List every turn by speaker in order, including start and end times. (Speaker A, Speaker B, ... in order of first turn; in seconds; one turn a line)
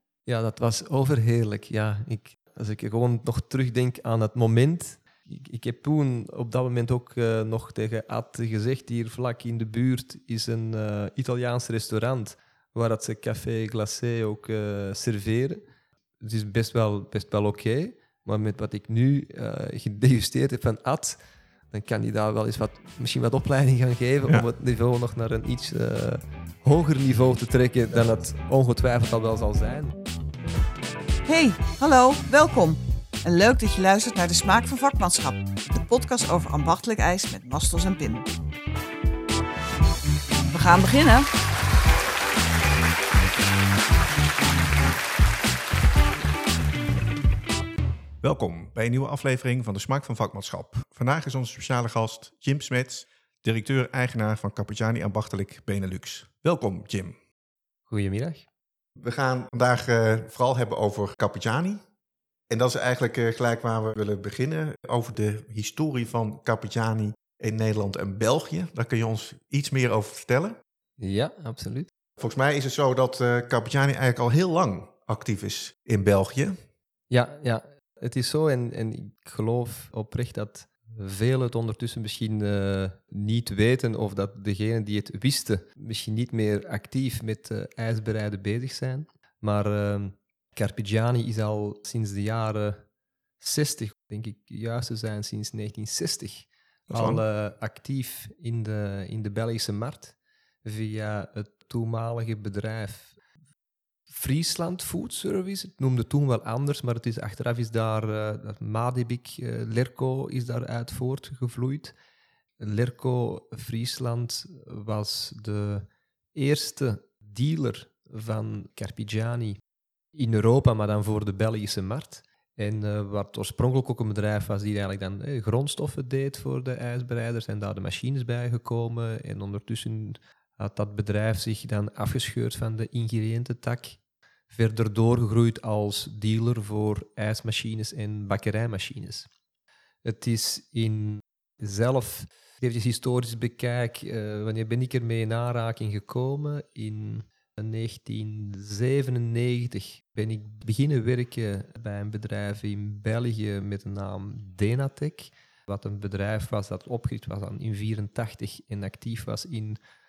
Speaker A: 0.3-15.6
Speaker A: 16.2-21.2
Speaker A: 21.7-30.0
Speaker B: 31.3-38.3
Speaker B: 40.5-41.3
Speaker C: 48.2-57.1
Speaker A: 57.9-58.5
Speaker C: 59.0-61.8
Speaker C: 62.5-70.6
Speaker A: 71.0-71.9
Speaker C: 72.2-76.6
Speaker A: 77.1-92.8
Speaker A: 93.4-103.2
Speaker C: 96.9-97.2
Speaker A: 104.1-111.9
Speaker A: 112.6-119.6
Speaker A: 120.1-134.0
Speaker A: 134.5-139.3
Speaker A: 140.1-159.8